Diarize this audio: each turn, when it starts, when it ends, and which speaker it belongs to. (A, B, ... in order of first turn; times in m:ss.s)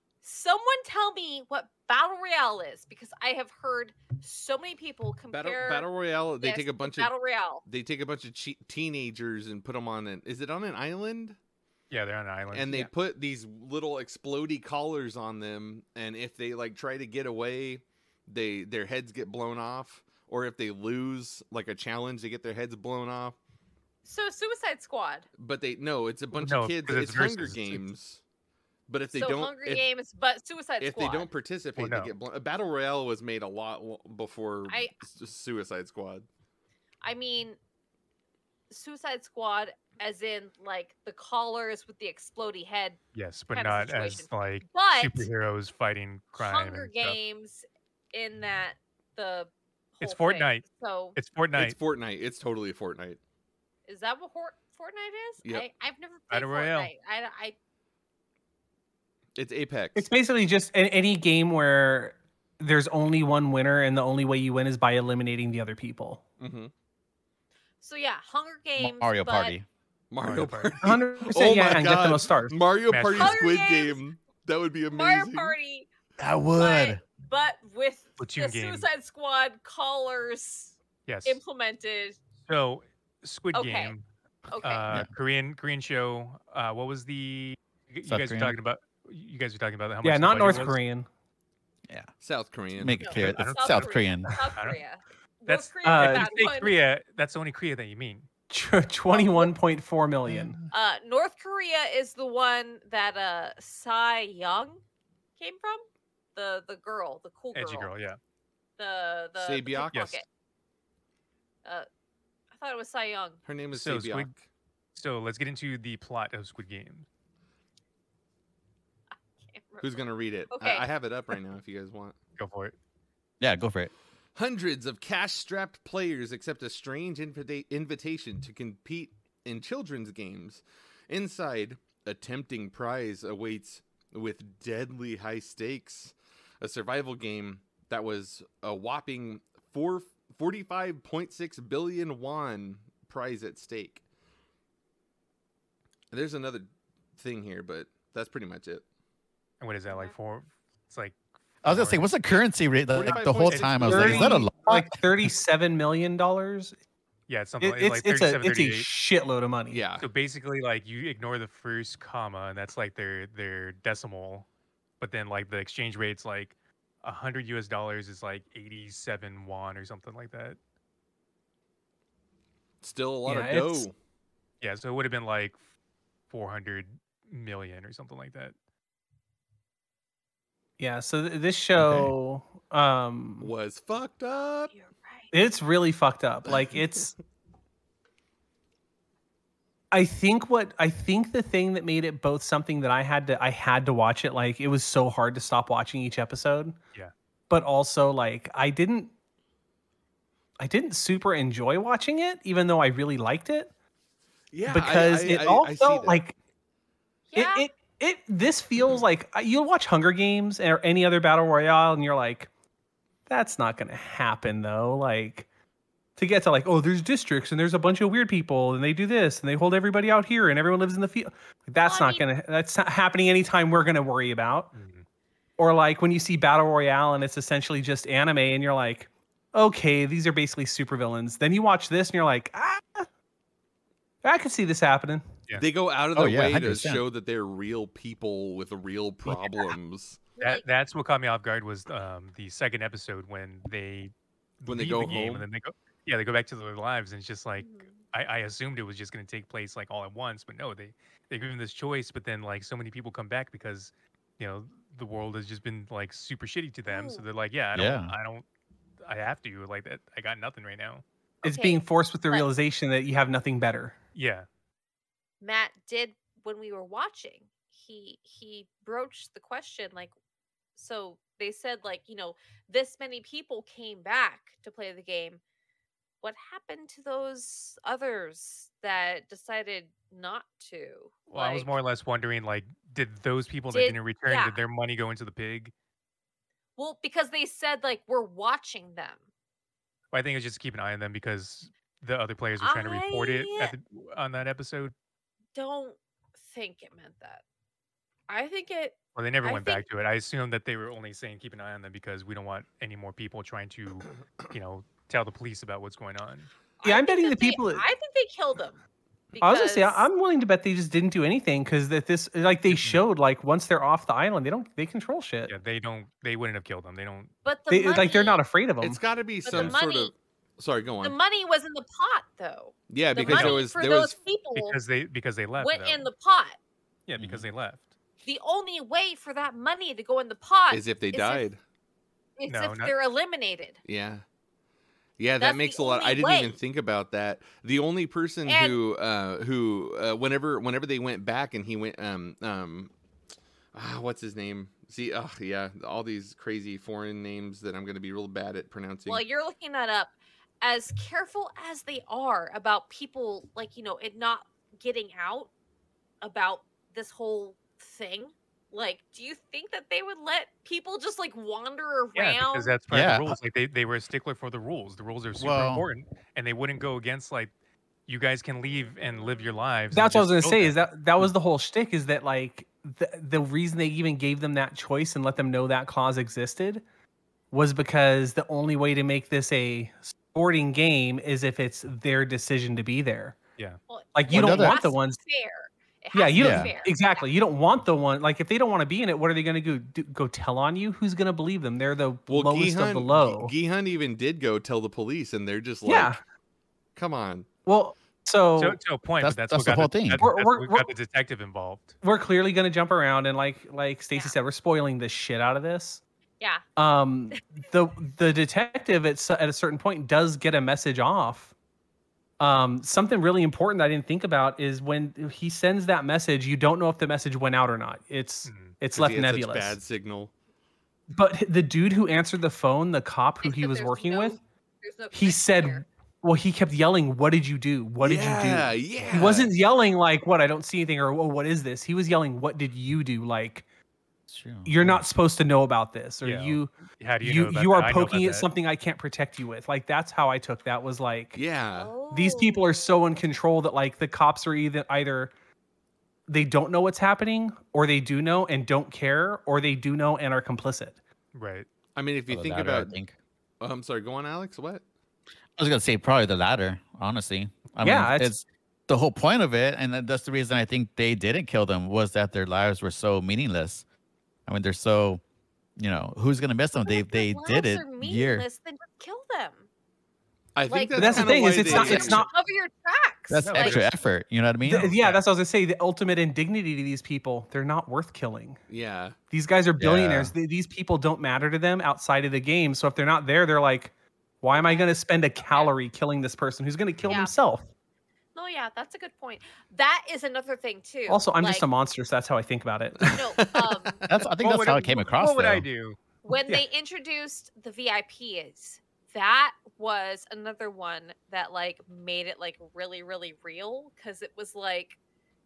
0:00.2-0:07.6 A
0:05.3-0:07.1 B
0:07.6-0:11.4 B
0:11.9-0:12.9 C
0:12.5-0:23.4 B
0:24.0-0:25.3 A
0:25.4-0:28.2 B
0:26.3-0:27.8 C
0:28.9-0:29.9 B
0:29.1-0:31.3 A
0:30.8-0:36.2 B
0:31.8-0:32.1 C
0:34.7-0:34.9 A
0:37.0-0:37.6 A
0:38.7-0:43.0 A
0:43.1-0:47.2 C
0:43.5-0:45.3 A
0:46.4-0:51.2 A
0:50.0-0:50.6 C
0:51.2-0:51.8 C
0:51.6-0:53.2 B
0:53.9-0:57.6 A
0:56.3-0:56.9 C
0:59.4-1:00.1 B
0:59.9-1:06.2 D
1:06.4-1:06.7 B
1:07.8-1:09.6 A
1:08.8-1:09.6 E
1:10.1-1:15.5 B
1:10.2-1:10.8 C
1:10.8-1:12.6 D
1:12.9-1:13.4 C
1:13.1-1:14.0 A
1:14.9-1:15.9 A
1:16.2-1:17.0 E
1:16.5-1:22.2 A
1:18.2-1:18.9 C
1:21.1-1:21.4 C
1:22.4-1:24.0 C
1:23.5-1:23.9 A
1:24.5-1:24.9 A
1:24.6-1:30.8 C
1:28.0-1:28.6 E
1:30.0-1:31.1 D
1:32.2-1:33.1 B
1:32.7-1:34.3 E
1:33.0-1:36.7 A
1:33.1-1:34.0 C
1:35.5-1:38.3 C
1:35.8-1:36.3 D
1:38.5-1:40.6 D
1:39.1-1:39.5 A
1:40.7-1:44.8 A
1:45.4-1:47.9 A
1:47.5-1:48.2 C
1:48.8-1:50.2 A
1:49.4-1:50.0 B
1:49.9-1:50.2 C
1:52.5-1:53.4 A
1:53.4-1:54.4 B
1:53.7-1:54.3 C
1:54.9-1:57.0 C
1:59.4-2:00.9 A
1:59.8-2:02.2 B
2:02.4-2:02.8 C
2:03.4-2:03.9 E
2:04.3-2:24.0 B
2:26.1-2:28.8 B
2:29.6-2:32.1 C
2:29.9-2:30.1 A
2:31.6-2:35.0 E
2:32.9-2:34.4 B
2:33.1-2:34.4 C
2:33.8-2:36.8 D
2:37.3-2:38.9 C
2:37.6-2:39.8 D
2:39.7-2:40.0 B
2:40.0-2:44.4 C
2:45.0-2:50.6 C
2:52.8-2:53.9 B
2:53.2-2:53.9 D
2:54.6-2:55.6 C
2:56.3-2:58.5 C
3:00.8-3:03.5 D
3:01.8-3:02.1 E
3:03.4-3:04.7 B
3:04.7-3:05.3 A
3:05.3-3:07.1 D
3:09.9-3:16.8 D
3:17.5-3:19.1 D
3:20.6-3:23.7 D
3:24.5-3:26.2 B
3:24.6-3:26.4 D
3:27.3-3:27.7 A
3:27.3-3:32.5 D
3:33.3-3:35.5 D
3:36.2-3:44.7 D
3:41.8-3:42.3 A
3:44.7-3:45.0 C
3:45.6-3:53.0 D
3:54.2-3:55.4 D
3:55.6-4:00.2 B
3:56.1-3:57.0 E
4:00.4-4:00.6 A
4:00.4-4:18.4 C
4:04.7-4:05.4 B
4:07.6-4:08.0 A
4:16.9-4:17.2 A
4:17.7-4:18.1 E
4:19.0-4:21.0 C
4:21.4-4:22.5 A
4:21.4-4:24.0 D
4:24.1-4:24.4 C
4:25.4-4:30.1 A
4:30.8-4:35.4 A
4:36.2-4:41.8 A
4:41.3-4:45.7 C
4:43.7-4:44.6 A
4:46.8-4:49.2 A
4:50.1-4:54.9 C
4:52.6-4:53.7 A
4:55.5-4:57.4 A
4:58.3-4:59.8 A
4:59.1-5:06.5 C
5:06.8-5:08.8 A
5:06.8-5:07.8 D
5:09.3-5:10.1 A
5:09.4-5:15.5 D
5:12.7-5:13.0 C
5:15.5-5:17.3 C
5:17.4-5:18.4 A
5:17.7-5:19.0 D
5:18.8-5:21.2 B
5:19.4-5:20.1 A
5:21.0-5:24.8 A
5:22.9-5:24.2 B
5:23.2-5:23.6 C
5:24.5-5:26.1 C
5:25.6-5:26.6 A
5:27.1-5:27.8 C
5:27.2-5:27.5 E
5:28.2-5:31.4 A
5:30.7-5:31.6 B
5:32.4-5:33.8 A
5:32.5-5:32.9 C
5:33.8-5:34.2 B
5:35.2-5:42.9 B
5:35.4-5:36.6 A
5:38.4-5:38.8 A
5:43.7-5:49.2 B
5:49.0-5:55.5 A
5:56.2-6:02.7 A
6:02.1-6:07.5 C
6:02.9-6:03.4 E
6:05.4-6:05.8 E
6:08.1-6:10.8 C
6:08.9-6:09.5 A
6:09.9-6:16.8 D
6:17.5-6:23.4 D
6:23.9-6:27.2 A
6:24.1-6:25.2 D
6:24.3-6:24.8 E
6:26.1-6:33.5 D
6:26.4-6:26.7 E
6:32.3-6:36.1 B
6:35.8-6:36.2 D
6:37.0-6:37.5 B
6:37.6-6:38.8 D
6:38.6-6:42.0 C
6:39.2-6:40.3 E
6:40.2-6:40.9 D
6:42.0-6:46.0 D
6:46.8-6:51.5 D
6:52.4-6:59.8 D
6:58.4-6:58.8 C
6:58.9-7:00.3 B
7:01.1-7:04.4 D
7:03.4-7:05.8 A
7:05.1-7:13.6 D
7:08.0-7:09.5 B
7:14.3-7:15.0 E
7:14.6-7:21.4 D
7:16.2-7:18.5 C
7:21.3-7:22.0 B
7:21.7-7:22.9 A
7:22.0-7:25.3 D
7:26.3-7:31.0 D
7:31.3-7:31.7 C
7:32.0-7:32.9 B
7:32.3-7:33.1 E
7:33.6-7:34.8 B
7:35.6-7:43.8 E
7:37.8-7:38.3 D
7:44.4-7:45.2 E
7:45.8-7:48.4 E
7:46.8-7:49.7 A
7:50.5-7:52.2 B
7:50.7-7:53.8 A
7:50.9-7:52.3 D
7:53.3-7:54.9 E
7:53.4-7:53.9 C
7:54.6-7:58.6 D
7:54.7-7:55.2 C
7:58.7-7:59.2 B
7:59.3-8:07.7 D
7:59.8-8:00.3 E
8:04.5-8:05.7 A
8:07.0-8:07.3 A
8:08.3-8:11.7 A
8:11.1-8:13.2 D
8:13.0-8:14.0 B
8:13.0-8:14.0 A
8:14.1-8:15.7 E
8:14.4-8:16.0 C
8:16.2-8:25.0 A